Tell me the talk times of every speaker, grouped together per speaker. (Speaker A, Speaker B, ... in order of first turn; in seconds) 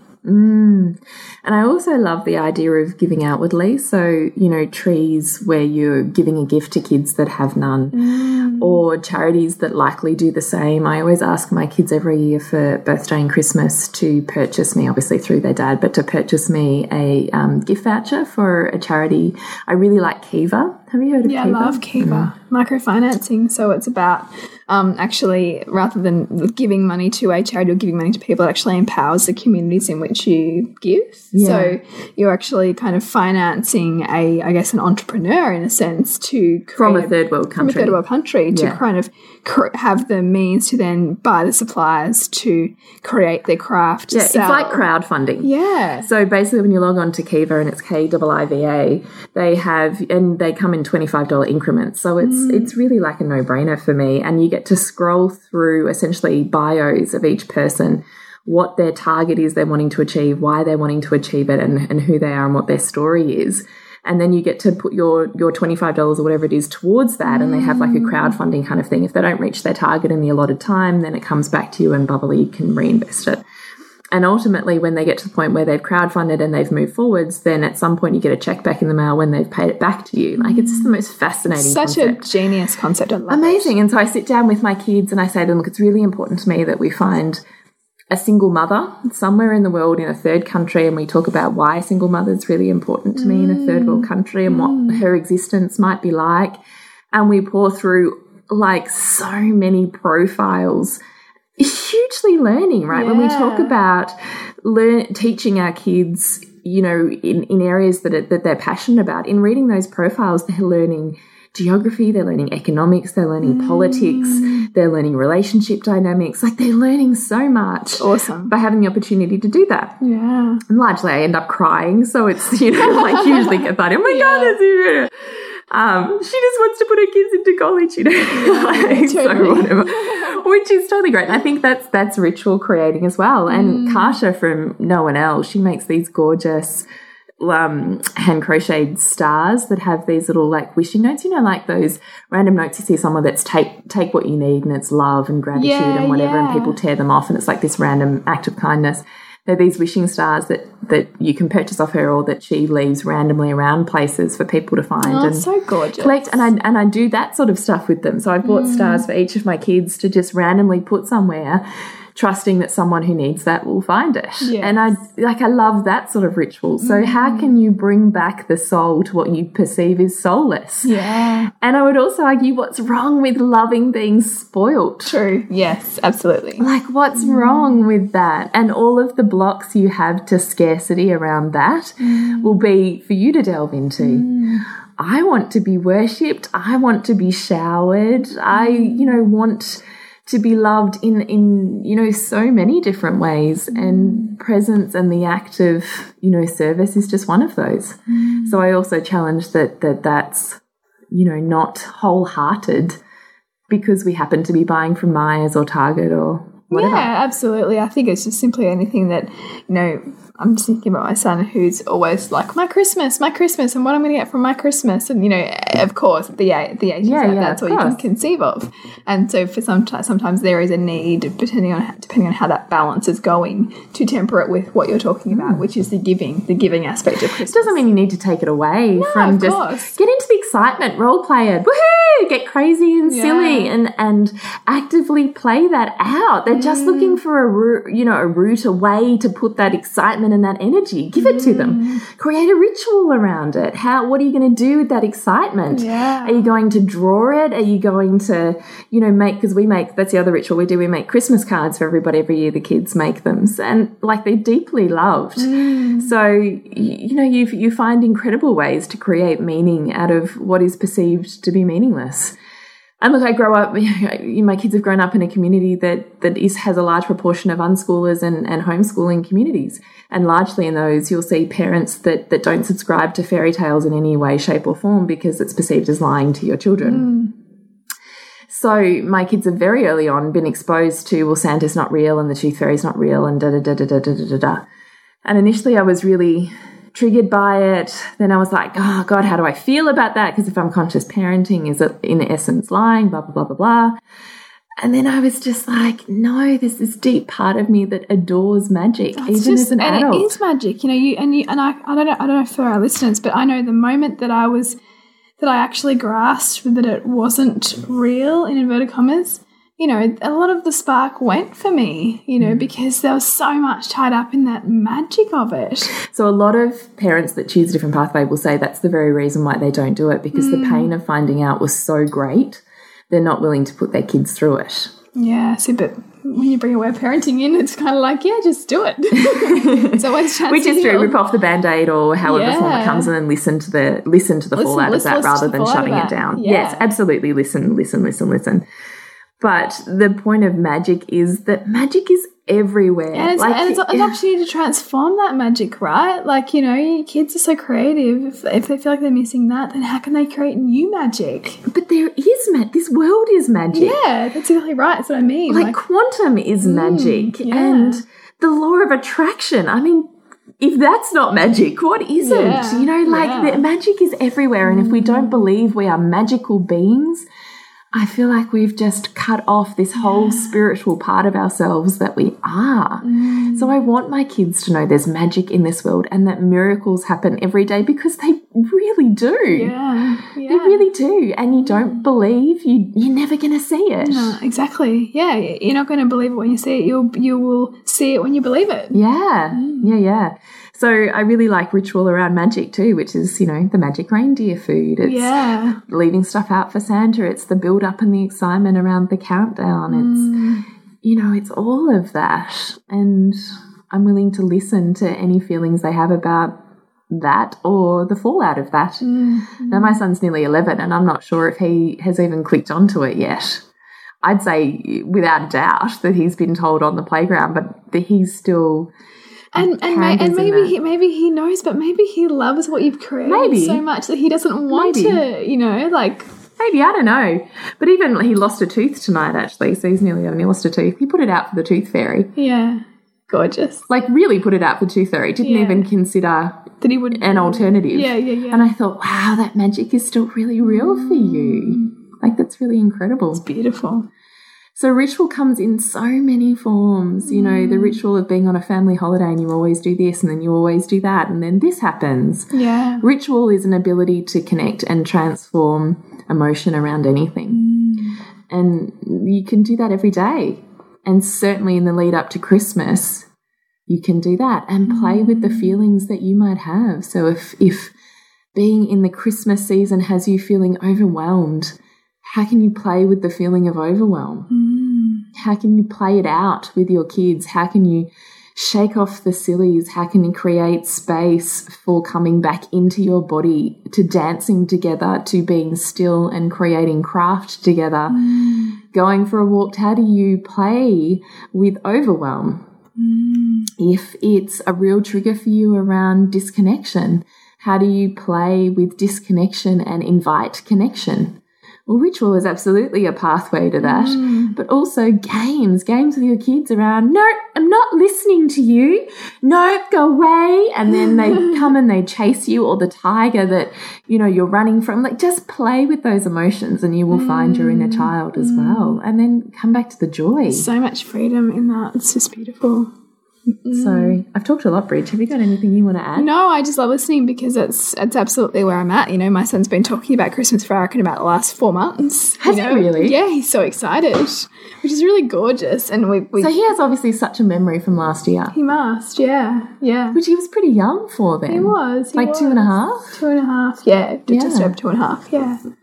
Speaker A: 0.2-22.3, 31.3-31.8, 36.8-38.8, 44.1-45.5, 46.0-73.4, 74.1-82.3, 83.3-87.4, 88.1-96.6, 97.1-101.0, 101.6-120.0, 120.7-136.9, 137.4-155.5, 156.0-161.6, 162.2-170.9, 171.5-175.2, 176.6-184.3, 185.0-200.6, 201.1-203.0, 203.7-207.1, 217.0-218.0, 225.3-225.6, 227.5-262.4, 263.0-277.1, 278.5-284.6, 285.2-294.0, 294.8-300.3, 312.4-312.7, 316.0-324.9, 329.2-338.6, 339.4-344.2, 351.7-354.0, 355.5-367.3, 367.9-379.7, 380.5-384.4, 388.9-400.4, 401.0-409.1, 409.7-413.6, 414.2-418.9, 419.6-420.8, 423.2-423.8, 424.7-425.2, 426.6-432.3, 433.9-443.4, 444.8-452.5, 453.0-457.6, 458.5-463.3, 463.9-467.9, 468.6-474.5, 475.4-488.2, 488.9-492.6, 493.8-520.7, 523.7-526.3, 532.4-533.2, 536.4-538.6, 540.1-543.1, 544.3-544.8
Speaker B: 7.9-8.8, 21.2-44.9, 45.4-46.1, 52.2-52.8, 67.2-68.4, 80.4-80.9, 81.5-83.7, 93.2-95.0, 102.9-103.8, 113.4-114.7, 118.0-118.5, 120.0-120.6, 122.9-124.6, 128.3-130.4, 133.5-134.2, 145.6-146.8, 155.0-156.4, 158.4-159.1, 164.4-165.0, 166.8-167.5, 170.8-171.5, 175.1-177.8, 182.0-182.6, 184.0-184.7, 188.5-189.2, 193.7-194.3, 198.1-198.6, 206.7-227.8, 228.9-229.9, 233.1-233.7, 236.5-237.2, 241.2-242.0, 245.7-246.5, 255.4-256.1, 276.8-277.3, 299.1-304.8, 305.4-316.0, 320.3-320.9, 325.1-331.2, 332.2-333.1, 334.6-336.9, 343.1-351.6, 353.7-355.8, 356.6-358.0, 362.2-363.6, 364.6-365.5, 370.0-370.6, 373.0-373.8, 379.5-380.9, 381.6-382.1, 384.0-389.0, 389.5-390.0, 395.0-395.8, 399.9-400.7, 409.0-409.9, 419.6-426.3, 432.4-433.9, 435.4-435.9, 436.8-438.7, 440.6-441.9, 443.3-444.1, 447.2-448.0, 452.5-453.0, 457.5-458.2, 464.9-465.8, 474.5-475.3, 488.1-488.8, 493.0-493.7, 503.8-504.6, 517.1-519.0, 520.5-522.9, 523.6-524.2, 526.2-536.6, 538.5-540.2, 541.5-545.6